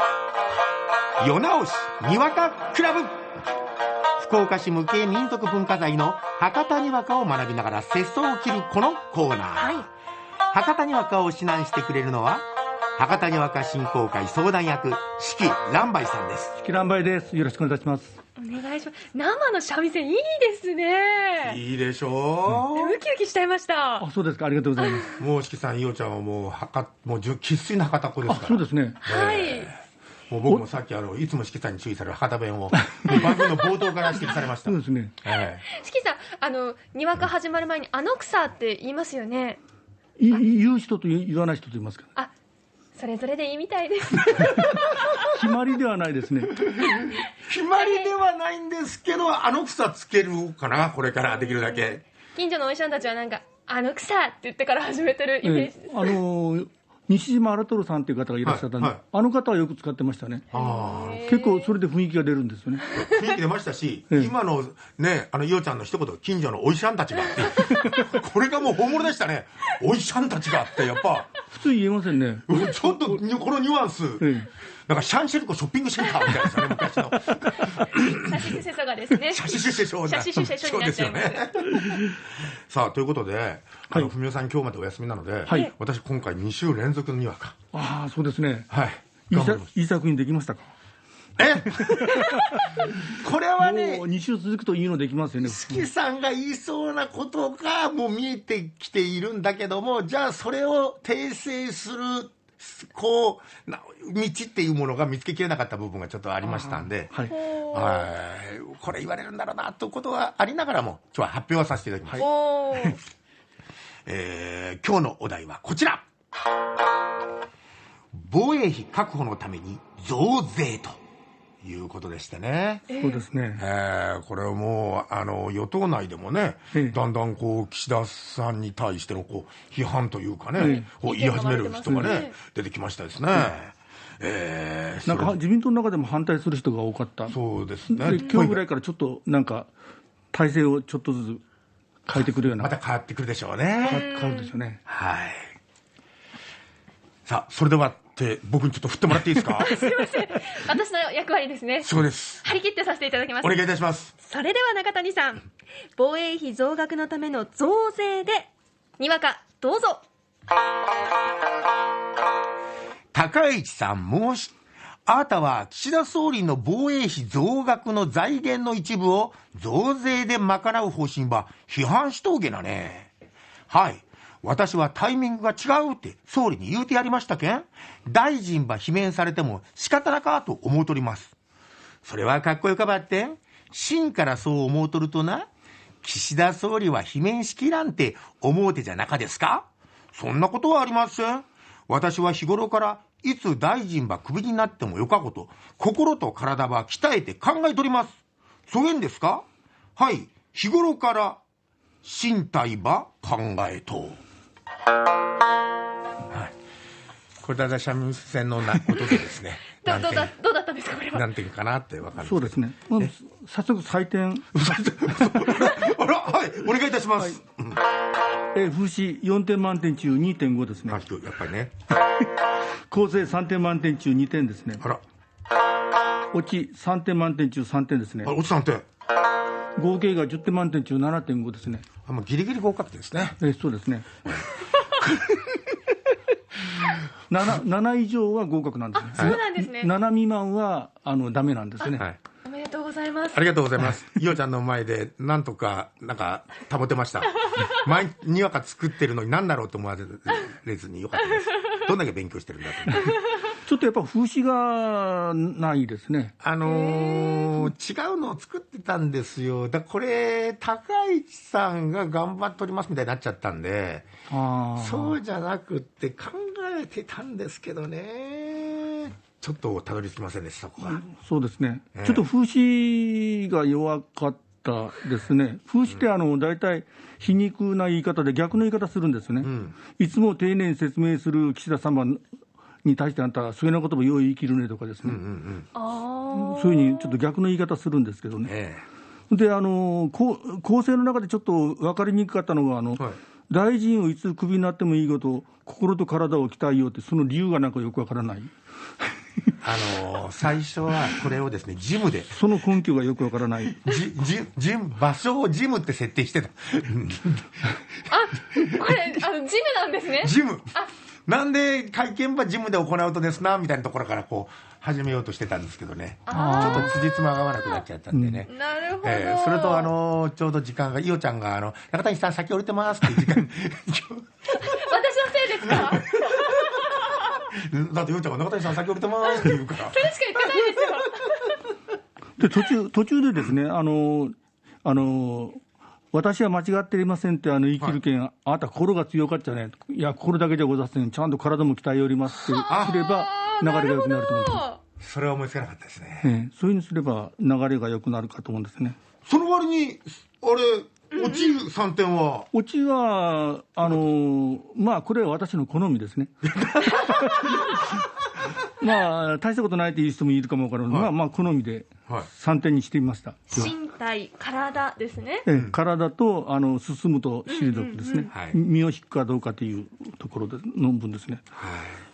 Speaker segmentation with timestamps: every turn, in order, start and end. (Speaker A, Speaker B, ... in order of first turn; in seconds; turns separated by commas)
Speaker A: 1.2-3.3, Speaker A: 4.2-9.9, Speaker B: 9.6-9.9, Speaker A: 10.5-12.4, Speaker A: 13.0-16.6, Speaker C: 16.6-18.2, Speaker B: 18.4-21.6, Speaker A: 21.4-23.0, Speaker B: 22.7-24.1, Speaker C: 24.0-25.1, Speaker B: 24.8-25.1, Speaker A: 25.1-29.8, Speaker C: 28.3-29.0, Speaker B: 29.0-29.7, Speaker A: 30.3-35.6, Speaker C: 33.0-33.4, Speaker C: 34.6-35.2, Speaker B: 35.6-39.6, Speaker C: 40.2-42.1, Speaker B: 43.0-44.9, Speaker C: 44.7-46.6, Speaker A: 46.7-52.0, Speaker B: 47.7-48.1, Speaker B: 52.4-56.2, Speaker C: 55.4-60.5, Speaker A: 58.4-59.0, Speaker B: 60.5-61.7, Speaker A: 60.5-61.2, Speaker C: 61.2-62.9, Speaker A: 62.9-71.3, Speaker C: 71.5-73.2, Speaker A: 72.5-74.3, Speaker C: 74.2-74.5, Speaker A: 74.9-78.3, Speaker C: 77.3-77.8, Speaker B: 77.7-81.5, Speaker A: 79.2-87.6, Speaker C: 81.7-82.1, Speaker C: 87.7-88.7, Speaker A: 88.7-89.7, Speaker C: 89.3-90.7, Speaker A: 91.4-94.1, Speaker C: 91.8-92.9, Speaker C: 93.6-95.9, Speaker A: 95.4-107.1, Speaker C: 106.4-107.3, Speaker B: 107.3-108.1, Speaker A: 107.7-112.2, Speaker C: 112.1-113.0, Speaker B: 112.2-113.0, Speaker A: 114.1-116.0, Speaker A: 118.1-121.0, Speaker A: 121.6-122.9, Speaker B: 122.9-123.2, Speaker C: 123.0-123.6, Speaker A: 123.6-135.4, Speaker C: 130.6-130.9, Speaker B: 130.6-132.3, Speaker C: 135.1-137.4, Speaker A: 137.3-138.6, Speaker C: 137.9-139.7, Speaker C: 140.3-141.4, Speaker C: 142.1-142.7, Speaker A: 142.6-144.1, Speaker C: 143.8-144.8, Speaker B: 143.9-144.5, Speaker A: 144.9-145.5, Speaker A: 147.3-149.8, Speaker B: 149.6-151.9, Speaker A: 151.8-152.4, Speaker B: 152.4-153.6, Speaker A: 153.4-154.1, Speaker B: 154.2-158.5, Speaker B: 159.0-160.0, Speaker A: 163.1-164.6, Speaker A: 165.1-173.1, Speaker A: 173.7-181.3, Speaker A: 182.0-185.5, Speaker A: 186.0-198.2, Speaker A: 198.7-199.4, Speaker A: 200.0-201.4, Speaker A: 202.0-204.2, Speaker A: 207.4-210.3, Speaker B: 209.8-211.3, Speaker A: 211.1-213.1, Speaker C: 212.2-214.6, Speaker A: 214.5-217.8, Speaker C: 218.5-221.0, Speaker A: 220.9-221.7, Speaker C: 222.9-224.8, Speaker C: 226.3-228.3, Speaker A: 228.2-228.8, Speaker C: 229.8-231.8, Speaker A: 232.1-233.4, Speaker C: 233.4-234.3, Speaker C: 237.3-242.1, Speaker B: 239.0-239.9, Speaker B: 242.4-243.5, Speaker A: 243.3-253.2, Speaker C: 253.7-256.3, Speaker A: 256.4-264.1, Speaker B: 256.6-257.6, Speaker C: 264.3-265.2, Speaker A: 264.8-271.0, Speaker C: 270.8-282.2, Speaker A: 271.9-272.3, Speaker A: 279.4-279.8, Speaker C: 282.8-285.2, Speaker A: 285.0-285.7, Speaker B: 285.8-287.2, Speaker C: 286.3-288.5, Speaker A: 288.4-288.9, Speaker C: 289.3-298.5, Speaker A: 299.6-302.4, Speaker C: 302.3-303.8, Speaker A: 303.7-307.5, Speaker B: 308.1-310.9, Speaker A: 310.2-310.7, Speaker A: 311.3-318.5, Speaker B: 316.3-316.9, Speaker C: 316.3-317.0, Speaker C: 318.1-318.4, Speaker B: 318.5-319.9, Speaker A: 319.0-324.3, Speaker B: 324.5-327.3, Speaker A: 325.8-326.9, Speaker A: 327.4-330.1, Speaker B: 329.4-331.6, Speaker C: 332.4-334.3, Speaker C: 334.8-335.6, Speaker C: 336.1-344.6, Speaker B: 342.5-344.8, Speaker A: 342.7-343.0, Speaker A: 345.0-346.3, Speaker C: 346.2-349.0, Speaker A: 349.2-352.5, Speaker B: 351.2-351.5, Speaker C: 352.5-357.8, Speaker A: 356.5-357.8, Speaker C: 358.7-363.7, Speaker B: 363.5-365.5, Speaker C: 365.5-371.4, Speaker B: 367.5-368.3, Speaker A: 368.3-368.6, Speaker A: 371.6-372.0